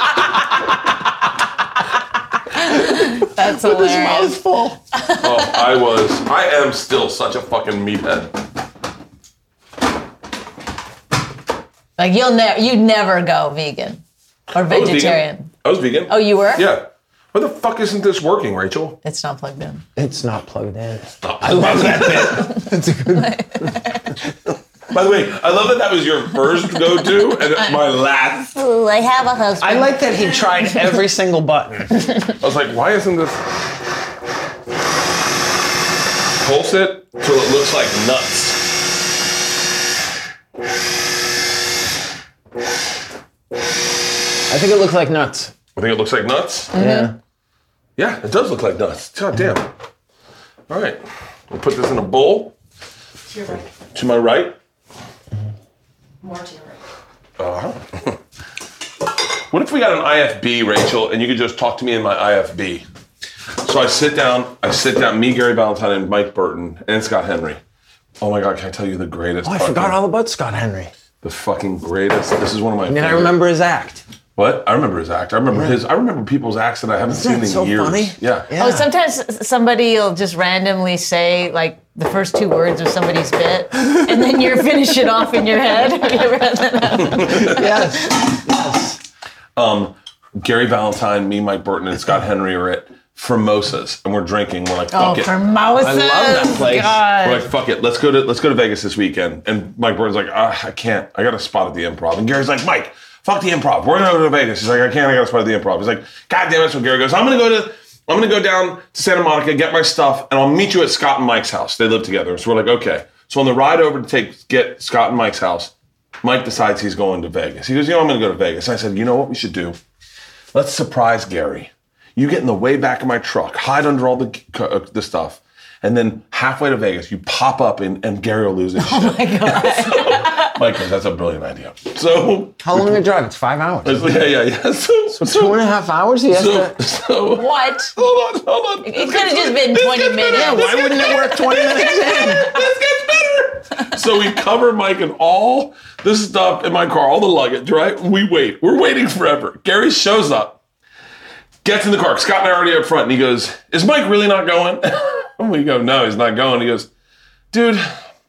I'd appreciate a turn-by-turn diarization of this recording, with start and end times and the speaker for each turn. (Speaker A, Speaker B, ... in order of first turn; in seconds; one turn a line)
Speaker A: 2.6-4.4
Speaker B: 2.7-4.8
Speaker A: 4.9-5.6
Speaker C: 5.2-8.3
Speaker A: 12.0-14.0
Speaker A: 14.5-15.5
Speaker C: 14.6-19.0
Speaker A: 16.1-16.7
Speaker A: 19.0-19.8
Speaker B: 20.0-23.7
Speaker C: 21.2-22.6
Speaker A: 23.1-24.1
Speaker C: 24.9-28.6
Speaker A: 28.6-30.5
Speaker B: 29.6-31.9
Speaker C: 32.4-33.5
Speaker C: 36.4-38.7
Speaker B: 44.5-45.5
Speaker C: 45.8-46.7
Speaker A: 46.7-47.1
Speaker B: 46.7-47.2
Speaker C: 48.0-49.7
Speaker C: 50.7-52.5
Speaker C: 53.8-54.6
Speaker C: 57.4-58.2
Speaker C: 59.5-62.8
Speaker C: 63.6-67.6
Speaker C: 68.2-70.0
Speaker B: 69.4-70.9
Speaker C: 71.2-73.4
Speaker B: 72.9-74.0
Speaker C: 74.4-78.5
Speaker B: 75.5-75.8
Speaker B: 77.1-78.9
Speaker A: 78.6-88.4
Speaker C: 87.0-87.6
Speaker B: 87.2-89.0
Speaker C: 89.6-95.3
Speaker A: 94.9-97.5
Speaker B: 95.8-97.0
Speaker C: 97.2-119.8
Speaker C: 120.5-133.0
Speaker A: 128.8-130.6
Speaker B: 132.6-134.2
Speaker C: 133.8-135.6
Speaker B: 135.2-136.8
Speaker C: 136.3-150.6
Speaker A: 137.4-137.9
Speaker A: 138.8-142.3
Speaker B: 140.3-142.5
Speaker C: 151.6-156.9
Speaker C: 157.5-157.9